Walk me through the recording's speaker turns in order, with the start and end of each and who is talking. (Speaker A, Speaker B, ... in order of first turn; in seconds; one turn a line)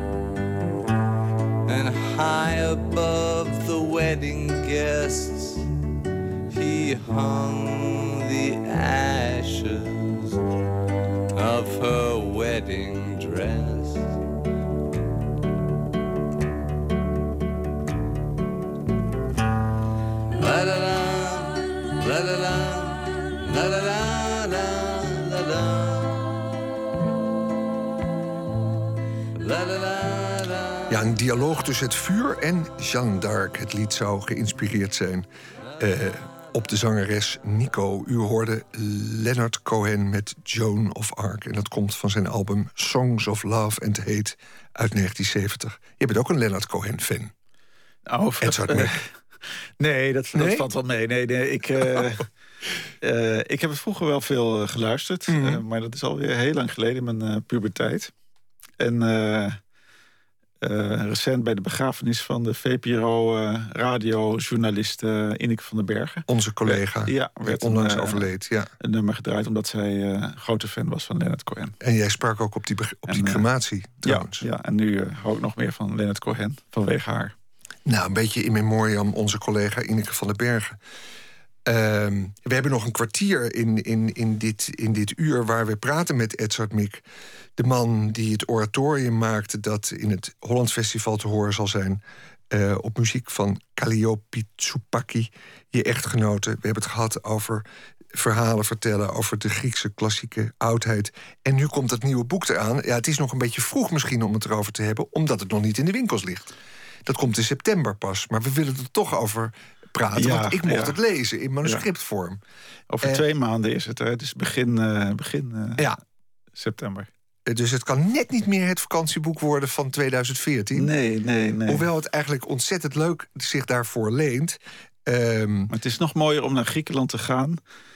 Speaker A: 1.7-5.7
Speaker A: 6.5-10.4
Speaker A: 11.3-14.1
Speaker A: 20.4-26.4
Speaker A: 29.4-31.0
Speaker B: 30.9-35.3
Speaker B: 35.8-47.3
Speaker C: 48.1-48.9
Speaker B: 48.4-49.0
Speaker C: 49.8-52.2
Speaker B: 50.3-50.7
Speaker C: 53.0-58.1
Speaker B: 55.3-55.6
Speaker C: 58.8-59.6
Speaker C: 60.6-68.2
Speaker B: 66.3-68.7
Speaker C: 68.8-71.8
Speaker B: 71.8-74.5
Speaker C: 73.1-73.4
Speaker C: 74.0-77.3
Speaker B: 77.9-80.8
Speaker B: 81.7-87.0
Speaker B: 87.6-106.5
Speaker B: 107.1-112.4
Speaker C: 110.2-111.0
Speaker C: 112.9-115.8
Speaker C: 116.6-117.1
Speaker B: 117.5-120.9
Speaker C: 120.8-121.8
Speaker B: 121.7-125.7
Speaker C: 125.7-127.6